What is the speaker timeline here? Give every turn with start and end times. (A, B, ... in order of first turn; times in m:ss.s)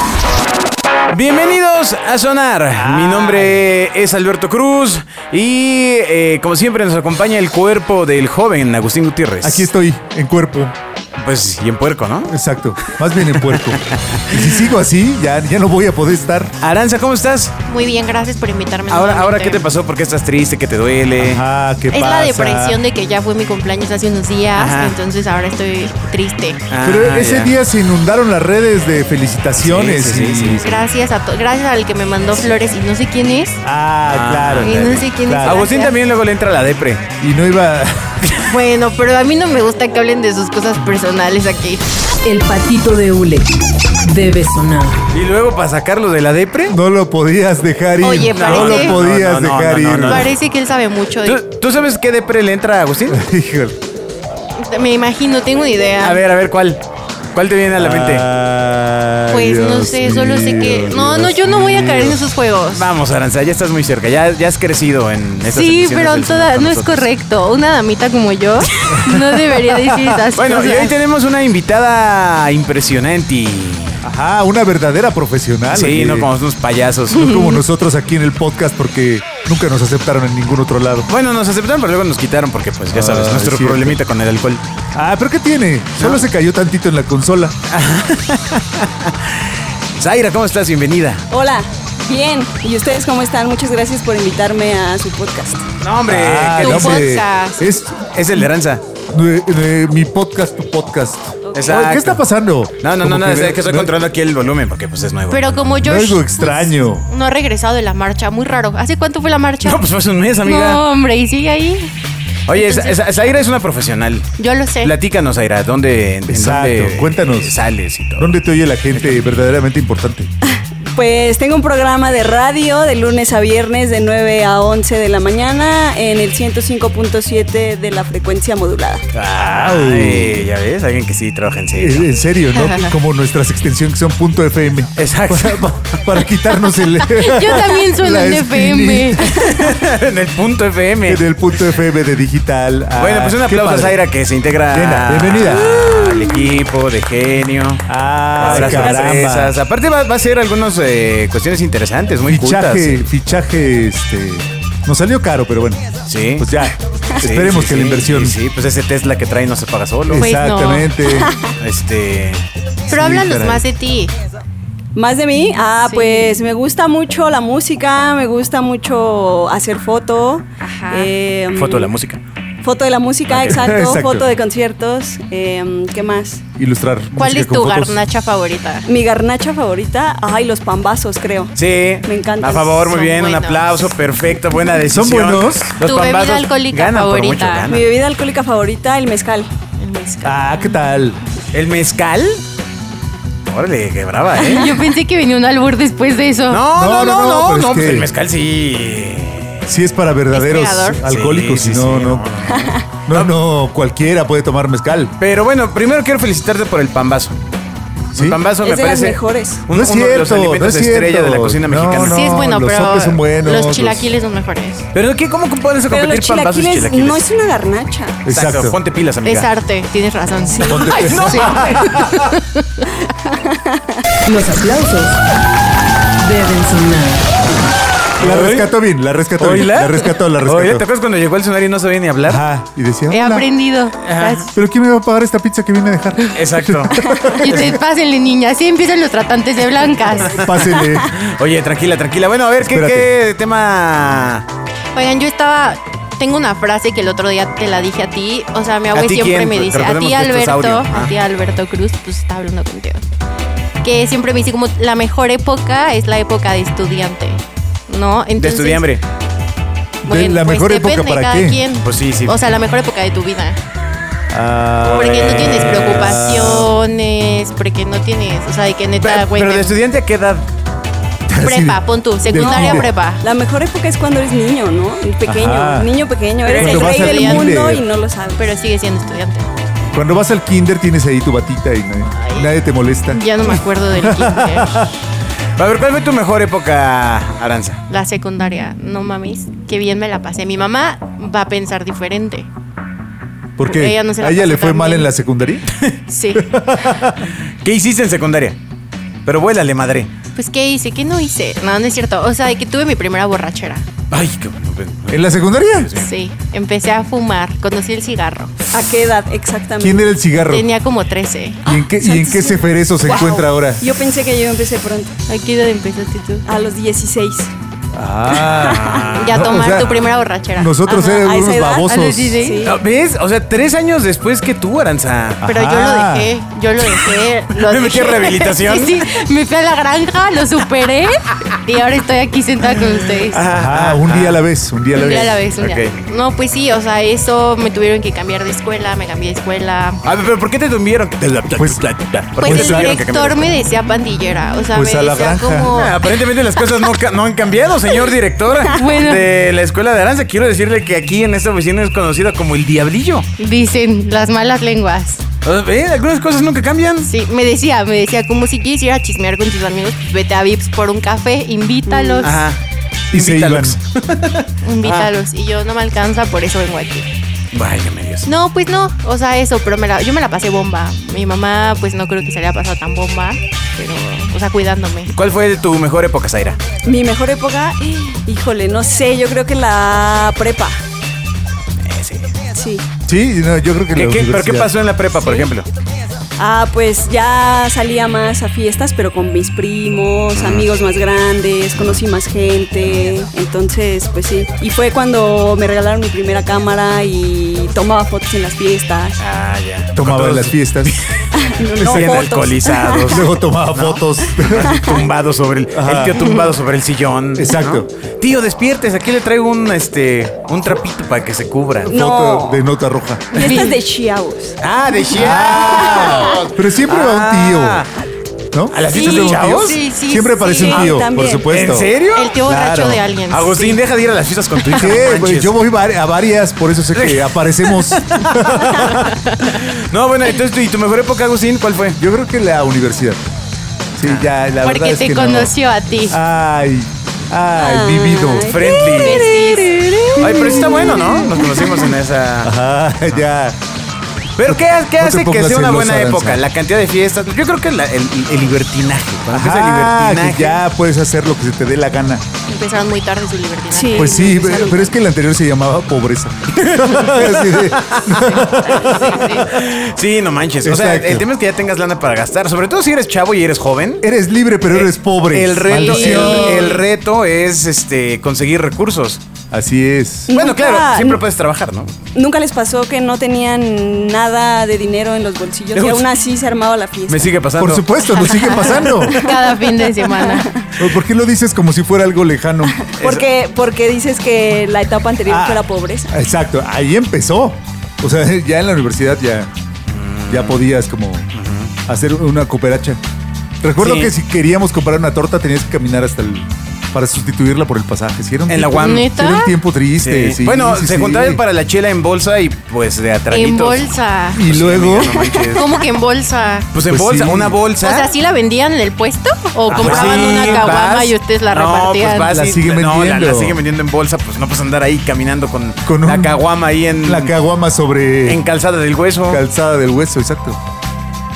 0:01.1-0:09.7 A
0:02.7-0:03.7 B
0:09.4-0:10.8 B
0:11.2-0:12.4 A
0:12.3-0:16.5 B
0:13.3-0:14.6 A
0:16.6-0:17.6 A
0:17.6-0:19.6 C
0:18.9-0:21.4 A
0:21.2-0:22.8 B
0:21.9-0:26.6 C
0:24.6-0:25.0 A
0:26.7-0:27.5 A
0:26.8-0:30.8 B
0:29.6-0:30.6 A
0:30.6-0:33.6 C
0:33.6-0:35.6 B
0:34.1-0:37.1 A
0:34.6-0:36.0 C
0:37.2-0:38.3 B
0:38.4-0:41.8 C
0:42.2-0:43.5 D
0:44.0-0:45.0 D
0:45.1-0:46.8 A
0:46.7-0:50.3 B
0:48.0-0:49.0 C
0:48.3-0:50.4 A
0:50.0-0:51.4 C
0:51.3-0:53.2 A
0:53.1-0:53.8 B
0:54.6-0:56.2 C
0:56.0-0:56.8 A
0:57.3-0:58.3 A
0:57.8-1:02.2 B
0:59.3-1:02.8 C
1:02.7-1:07.1 A
1:05.4-1:10.9 C
1:08.9-1:10.2 B
1:10.4-1:14.0 A
1:14.0-1:16.3 B
1:15.7-1:17.3 A
1:17.1-1:21.1 B
1:17.2-1:17.6 C
1:21.1-1:24.6 A
1:22.9-1:24.0 B
1:24.9-1:27.6 B
1:27.7-1:31.3 A
1:31.3-1:35.7 E
1:35.8-1:37.1 A
1:36.1-1:38.4 B
1:36.6-1:37.7 C
1:38.1-1:38.8 A
1:39.1-1:43.9 B
1:41.5-1:42.2 A
1:42.8-1:45.8 A
1:45.3-1:49.8 C
1:45.8-1:47.1 B
1:49.6-1:50.8 A
1:50.4-1:51.9 C
1:52.5-1:58.4 A
1:52.5-1:53.0 C
1:54.4-1:54.9 C
1:56.3-1:57.6 B
1:58.2-2:00.3 B
1:59.0-1:59.2 A
2:00.5-2:09.0 E
2:09.1-2:12.1 A
2:09.6-2:10.5 B
2:11.8-2:19.4 B
2:12.5-2:12.9 C
2:15.0-2:16.0 A
2:17.0-2:19.5 C
2:19.3-2:21.2 A
2:21.1-2:24.0 B
2:23.0-2:33.0 A
2:24.7-2:25.9 B
2:27.9-2:29.6 B
2:32.3-2:38.4 B
2:36.1-2:36.6 A
2:37.2-2:40.3 A
2:40.1-2:41.3 B
2:40.2-2:41.0 C
2:41.6-2:42.4 A
2:42.9-2:43.6 B
2:42.9-2:44.1 C
2:45.0-2:51.9 E
2:45.8-2:46.3 C
2:50.6-2:51.1 C
2:51.5-2:52.2 A
2:52.6-2:56.4 E
2:53.3-2:53.7 A
2:53.4-2:54.3 B
2:56.6-2:58.0 B
2:57.2-2:58.9 C
2:58.9-3:01.5 E
3:01.6-3:07.9 A
3:02.0-3:02.8 E
3:02.4-3:03.9 C
3:04.9-3:05.7 B
3:05.8-3:07.8 C
3:07.7-3:09.5 E
3:09.8-3:10.8 C
3:10.2-3:11.2 B
3:11.5-3:12.4 A
3:13.5-3:14.8 A
3:14.4-3:14.8 E
3:14.4-3:16.6 C
3:16.5-3:19.6 A
3:16.7-3:18.1 B
3:19.7-3:22.2 B
3:20.3-3:21.0 C
3:21.1-3:23.3 A
3:22.5-3:22.8 E
3:23.1-3:25.2 B
3:25.2-3:27.4 A
3:28.1-3:32.4 A
3:28.1-3:28.4 B
3:28.6-3:29.6 E
3:29.7-3:34.1 B
3:32.0-3:34.9 C
3:34.9-3:37.3 A
3:35.9-3:38.2 E
3:38.2-3:38.8 B
3:38.3-3:39.5 A
3:39.2-3:42.9 C
3:40.6-3:40.9 E
3:40.6-3:42.2 B
3:40.9-3:42.2 A
3:43.3-3:44.0 E
3:44.3-3:45.2 D
3:46.2-3:47.3 D
3:48.2-3:48.7 A
3:48.2-3:50.8 B
3:49.4-3:52.4 A
3:52.3-3:53.5 B
3:53.1-3:54.5 C
3:54.0-3:54.4 A
3:54.5-3:57.8 B
3:56.3-3:57.1 A
3:57.3-4:00.5 C
4:00.2-4:04.5 A
4:00.4-4:01.1 B
4:02.6-4:03.1 B
4:04.9-4:13.0 C
4:08.9-4:11.1 A
4:13.8-4:18.9 C
4:18.4-4:19.0 A
4:20.0-4:21.6 B
4:20.1-4:23.6 C
4:21.8-4:22.4 A
4:24.3-4:26.7 B
4:24.9-4:29.8 C
4:25.0-4:26.2 A
4:29.0-4:30.4 A
4:31.3-4:32.9 B
4:31.4-4:33.2 C
4:32.3-4:38.5 E
4:35.2-4:35.9 B
4:36.4-4:37.6 C
4:36.5-4:37.8 B
4:38.4-4:39.5 C
4:39.9-4:44.9 B
4:42.1-4:42.5 C
4:43.1-4:44.9 C
4:45.6-4:47.8 A
4:47.9-4:52.5 C
4:53.6-4:55.7 B
4:53.6-4:55.1 C
4:56.1-4:56.5 C
4:56.4-4:57.2 B
4:57.6-4:58.6 A
4:59.3-5:00.1 A
5:00.4-5:03.8 C
5:04.1-5:06.1 A
5:05.1-5:05.9 B
5:06.0-5:08.5 C
5:08.7-5:10.1 E
5:09.8-5:10.7 B
5:10.4-5:11.6 C
5:11.6-5:13.8 B
5:11.7-5:15.2 E
5:15.3-5:16.5 C
5:16.5-5:17.5 E
5:17.9-5:22.4 B
5:18.5-5:19.1 E
5:18.5-5:19.9 A
5:19.2-5:20.7 C
5:20.9-5:22.8 E
5:21.8-5:22.6 C
5:22.6-5:25.4 A
5:25.4-5:26.3 B
5:25.4-5:33.4 C
5:27.5-5:29.1 A
5:33.3-5:34.4 A
5:33.5-5:35.4 B
5:34.9-5:40.0 C
5:35.6-5:36.0 A
5:40.0-5:43.5 A
5:41.6-5:43.0 B
5:42.4-5:46.0 C
5:44.7-5:45.7 B
5:45.7-5:53.3 A
5:48.7-5:49.3 C
5:53.4-5:55.2 C
5:55.4-5:57.1 A
5:57.0-6:02.4 C
6:01.9-6:02.4 E
6:02.2-6:02.6 A
6:03.1-6:03.8 B
6:03.1-6:05.1 A
6:04.6-6:07.1 C
6:07.5-6:08.3 A
6:08.2-6:15.1 C
6:15.1-6:16.6 A
6:16.8-6:20.8 E
6:21.8-6:22.3 A
6:22.5-6:22.8 E
6:23.1-6:24.7 B
6:23.9-6:25.7 A
6:25.2-6:25.5 E
6:26.4-6:39.2 E
6:30.4-6:30.7 A
6:39.2-6:41.1 A
6:40.0-6:40.9 B
6:41.3-6:43.2 E
6:41.8-6:42.3 B
6:41.8-6:51.9 A
6:43.1-6:44.9 B
6:45.7-6:46.3 B
6:46.2-6:46.4 C
6:47.4-6:47.9 B
6:51.9-6:52.6 E
6:51.9-6:53.7 B
6:53.3-6:54.6 E
6:53.4-6:53.7 C
6:54.6-6:57.9 A
6:55.1-6:56.4 E
6:55.2-6:57.8 B
6:58.5-7:01.9 B
6:58.7-6:59.8 A
6:58.9-7:00.9 C
7:00.5-7:01.5 E
7:01.5-7:02.3 A
7:02.1-7:03.8 C
7:02.4-7:03.0 B
7:03.3-7:05.5 A
7:04.7-7:09.2 B
7:06.9-7:08.9 A
7:09.1-7:09.5 C
7:09.4-7:12.0 A
7:12.0-7:13.2 B
7:14.0-7:15.5 B
7:14.0-7:14.3 A
7:14.6-7:16.2 C
7:16.1-7:18.6 B
7:17.6-7:21.9 E
7:18.5-7:19.4 A
7:18.9-7:19.8 C
7:20.2-7:22.6 A
7:22.4-7:23.6 B
7:24.4-7:30.6 A
7:24.4-7:26.4 B
7:29.3-7:32.2 B
7:32.5-7:34.9 C
7:33.7-7:34.6 E
7:34.0-7:39.3 B
7:36.5-7:44.1 A
7:38.1-7:39.5 C
7:40.6-7:41.3 B
7:44.0-7:46.8 B
7:44.7-7:49.2 A
7:45.7-7:46.8 C
7:49.5-7:50.3 B
7:50.3-7:51.2 E
7:50.3-7:51.9 A
7:52.1-7:57.3 E
7:55.7-7:56.1 A
7:57.1-7:57.8 A
7:57.6-7:59.3 B
7:58.1-8:00.5 C
8:00.0-8:00.5 E
8:00.8-8:02.8 B
8:02.9-8:06.1 E
8:03.0-8:03.3 A
8:05.3-8:09.5 B
8:09.9-8:10.7 A
8:10.3-8:11.3 B
8:11.3-8:11.7 A
8:11.9-8:13.0 B
8:13.6-8:21.4 B
8:13.8-8:14.1 A
8:18.5-8:19.1 A
8:18.8-8:19.5 C
8:20.0-8:25.6 A
8:23.3-8:24.4 C
8:24.3-8:25.3 B
8:25.0-8:25.7 E
8:25.5-8:26.7 C
8:26.7-8:28.1 A
8:26.9-8:27.6 B
8:27.8-8:32.4 C
8:29.7-8:37.4 A
8:29.8-8:30.7 B
8:32.3-8:33.6 B
8:35.9-8:36.4 B
8:37.0-8:38.4 B
8:38.2-8:39.4 A
8:39.3-8:40.6 B